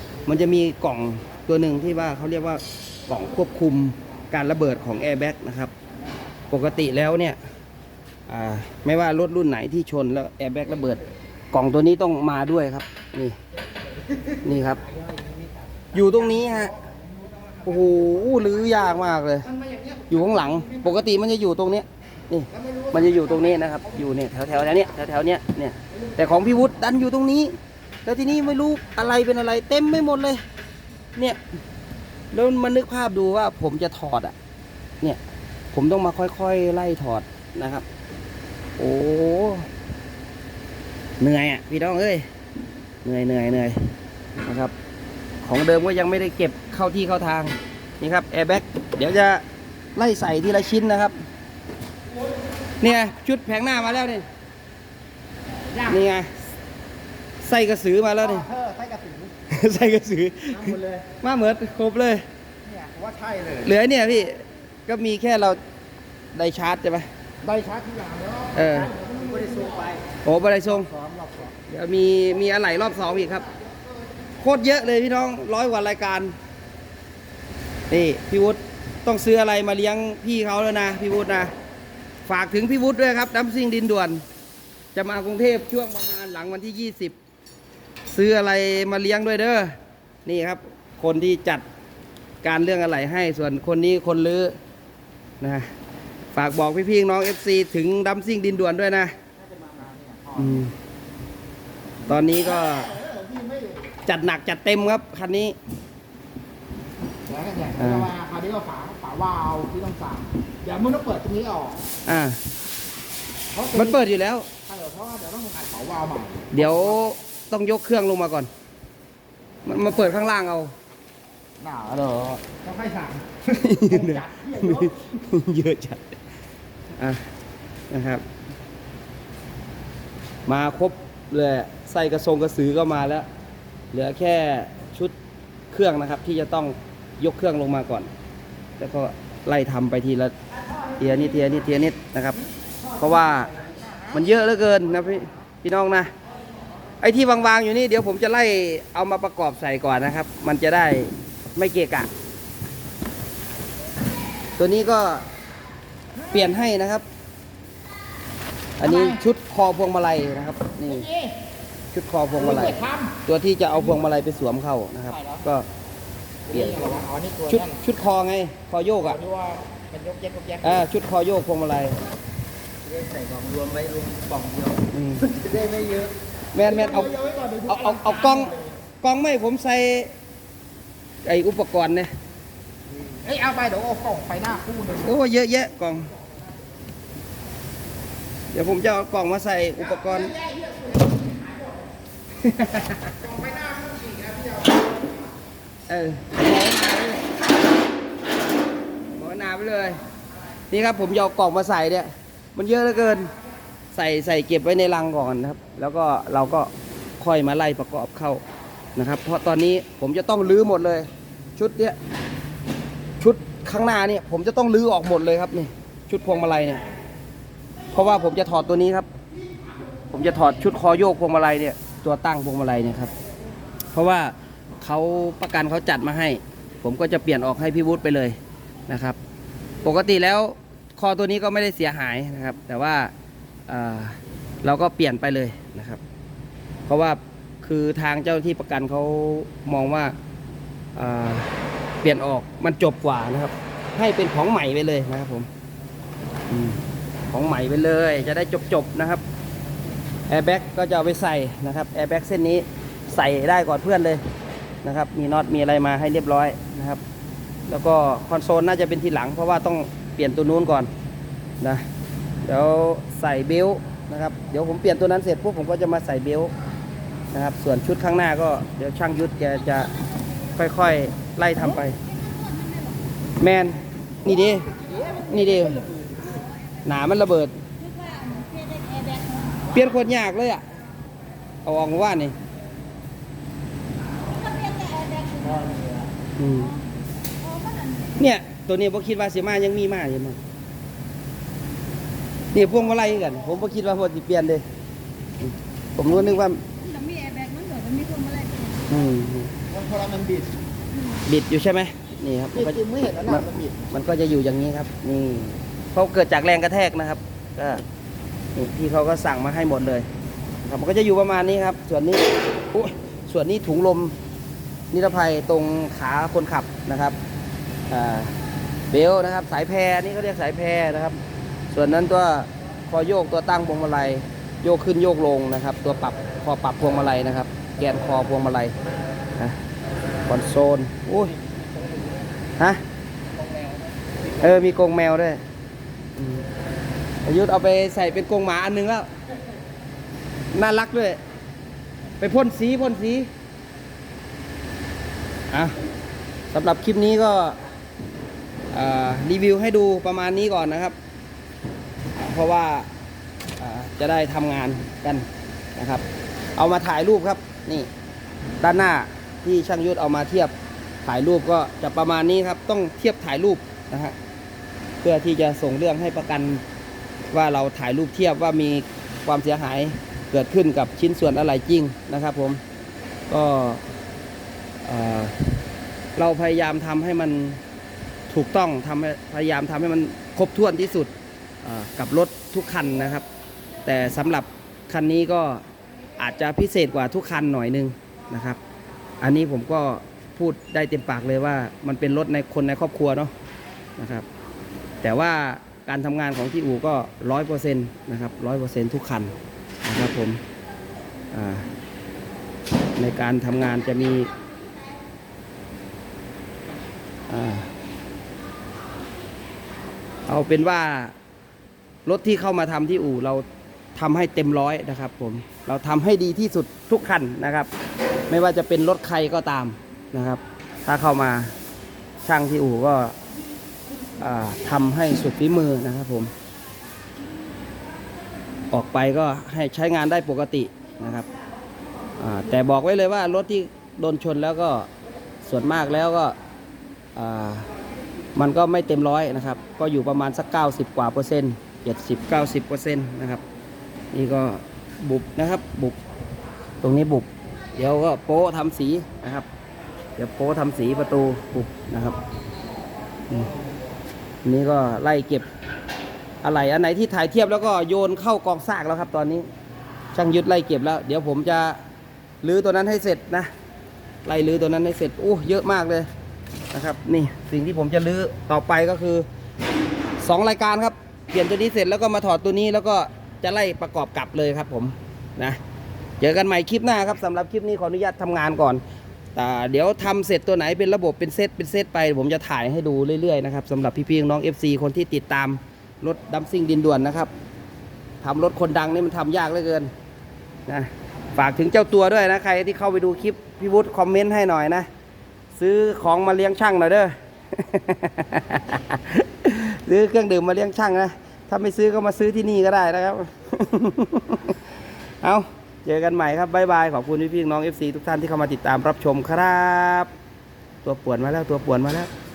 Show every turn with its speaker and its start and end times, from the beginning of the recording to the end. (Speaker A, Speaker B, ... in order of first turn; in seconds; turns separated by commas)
Speaker A: 0.2-5.7, Speaker A: 6.5-7.4, Speaker A: 8.3-11.0, Speaker A: 11.5-13.4, Speaker A: 14.4-14.8, Speaker A: 15.9-16.8, Speaker A: 17.6-19.5, Speaker B: 19.6-20.8, Speaker A: 20.1-30.4, Speaker B: 22.7-23.0, Speaker A: 32.3-34.3, Speaker A: 35.7-37.8, Speaker A: 38.8-39.7, Speaker A: 41.2-42.3, Speaker A: 43.0-44.7, Speaker A: 45.4-49.4, Speaker A: 50.0-51.1, Speaker A: 52.8-54.2, Speaker A: 55.8-56.3, Speaker A: 57.4-58.5, Speaker B: 58.2-59.3, Speaker A: 59.5-62.2, Speaker B: 60.6-61.0, Speaker B: 62.7-63.7, Speaker A: 63.6-65.6, Speaker A: 66.3-67.1, Speaker B: 67.4-70.0, Speaker A: 68.5-68.9, Speaker A: 70.2-70.9, Speaker B: 70.9-71.5, Speaker A: 71.7-73.5, Speaker A: 74.4-76.3, Speaker A: 77.9-81.5, Speaker A: 82.2-84.2, Speaker A: 84.9-87.2, Speaker A: 88.1-89.7, Speaker A: 90.2-91.6, Speaker A: 92.4-94.5, Speaker A: 95.4-95.7, Speaker A: 96.3-99.1, Speaker B: 99.5-100.6, Speaker A: 100.4-100.7, Speaker A: 102.1-103.0, Speaker B: 102.7-103.8, Speaker A: 104.1-105.6, Speaker B: 107.2-111.8, Speaker A: 107.8-108.1, Speaker A: 112.1-112.4, Speaker B: 113.5-114.0, Speaker A: 113.7-114.5, Speaker B: 114.7-116.9, Speaker A: 116.5-118.5, Speaker A: 119.6-120.7, Speaker B: 121.6-125.0, Speaker A: 123.5-126.2, Speaker A: 127.9-128.2, Speaker A: 130.5-133.2, Speaker A: 133.9-135.1, Speaker A: 135.7-138.1, Speaker A: 138.8-140.3, Speaker A: 141.0-142.4, Speaker A: 143.0-143.5, Speaker A: 144.1-146.1, Speaker A: 147.0-152.1, Speaker A: 154.6-155.2, Speaker A: 156.3-157.0, Speaker A: 158.8-161.1, Speaker B: 158.8-159.2, Speaker B: 160.9-161.4, Speaker A: 161.9-165.7, Speaker B: 162.4-163.2, Speaker B: 166.5-167.8, Speaker A: 166.5-166.9, Speaker A: 167.5-169.2, Speaker B: 169.0-170.8, Speaker A: 170.6-172.0, Speaker A: 174.9-175.4, Speaker B: 175.3-176.1, Speaker A: 176.5-177.1, Speaker B: 176.6-178.7, Speaker A: 177.6-180.1, Speaker A: 181.2-182.1, Speaker B: 183.2-185.1, Speaker A: 185.0-186.1, Speaker A: 188.5-190.3, Speaker B: 190.0-191.7, Speaker A: 192.4-193.1, Speaker B: 193.2-194.8, Speaker A: 195.9-197.2, Speaker A: 199.1-200.0, Speaker A: 200.7-203.3, Speaker A: 203.9-208.4, Speaker A: 208.9-211.9, Speaker A: 213.2-216.8, Speaker A: 217.9-219.1, Speaker A: 220.1-223.1, Speaker A: 223.9-228.4, Speaker A: 228.9-229.2, Speaker A: 229.8-233.1, Speaker A: 233.7-236.0, Speaker A: 236.9-240.1, Speaker A: 240.9-245.5, Speaker A: 246.5-246.8, Speaker A: 247.3-249.2, Speaker A: 250.3-254.2, Speaker A: 254.8-257.0, Speaker A: 257.7-260.9, Speaker A: 262.4-266.5, Speaker A: 267.3-269.9, Speaker A: 270.6-272.0, Speaker C: 272.4-272.9, Speaker A: 273.4-275.9, Speaker A: 276.9-277.5, Speaker C: 277.9-279.5, Speaker A: 279.7-280.6, Speaker A: 281.6-282.3, Speaker C: 284.4-285.6, Speaker A: 286.4-286.8, Speaker C: 287.4-288.1, Speaker A: 288.1-290.4, Speaker A: 292.5-294.6, Speaker A: 295.4-296.6, Speaker C: 296.8-298.8, Speaker A: 298.9-299.5, Speaker B: 299.7-300.6, Speaker A: 301.2-307.8, Speaker B: 302.5-303.9, Speaker A: 308.6-310.1, Speaker A: 310.6-314.1, Speaker A: 314.9-317.2, Speaker A: 317.9-318.3, Speaker A: 318.9-321.2, Speaker A: 321.7-328.7, Speaker A: 330.3-331.4, Speaker A: 334.4-335.4, Speaker A: 336.2-336.4, Speaker A: 337.2-339.1, Speaker A: 340.5-341.2, Speaker A: 342.2-343.3, Speaker A: 346.5-347.6, Speaker A: 348.7-350.9, Speaker A: 352.2-352.9, Speaker A: 353.6-356.0, Speaker A: 356.6-357.9, Speaker A: 358.6-360.5, Speaker A: 361.1-364.1, Speaker A: 365.0-366.6, Speaker A: 367.3-372.6, Speaker A: 373.3-373.8, Speaker A: 374.8-375.6, Speaker A: 376.2-377.6, Speaker A: 378.3-381.1, Speaker A: 381.6-383.2, Speaker A: 383.8-385.6, Speaker A: 386.2-388.6, Speaker A: 389.2-393.3, Speaker A: 394.0-394.3, Speaker A: 395.0-400.4, Speaker A: 401.3-401.7, Speaker A: 403.0-404.3, Speaker A: 407.3-407.7, Speaker A: 410.3-411.1, Speaker A: 412.1-413.4, Speaker A: 413.9-417.7, Speaker A: 418.3-421.5, Speaker A: 422.2-423.1, Speaker A: 424.2-426.3, Speaker A: 428.7-431.3, Speaker A: 432.2-434.9, Speaker A: 435.4-436.3, Speaker A: 437.2-437.7, Speaker A: 438.4-443.4, Speaker A: 444.1-446.0, Speaker A: 446.8-449.5, Speaker A: 450.2-452.2, Speaker A: 454.4-455.4, Speaker A: 456.4-459.5, Speaker A: 460.1-461.8, Speaker A: 462.4-463.5, Speaker A: 464.2-466.1, Speaker A: 466.7-469.3, Speaker A: 470.2-475.6, Speaker A: 476.2-478.8, Speaker A: 479.3-487.3, Speaker A: 488.2-489.9, Speaker A: 490.7-494.9, Speaker A: 495.6-504.6, Speaker A: 505.2-510.1, Speaker A: 510.8-512.1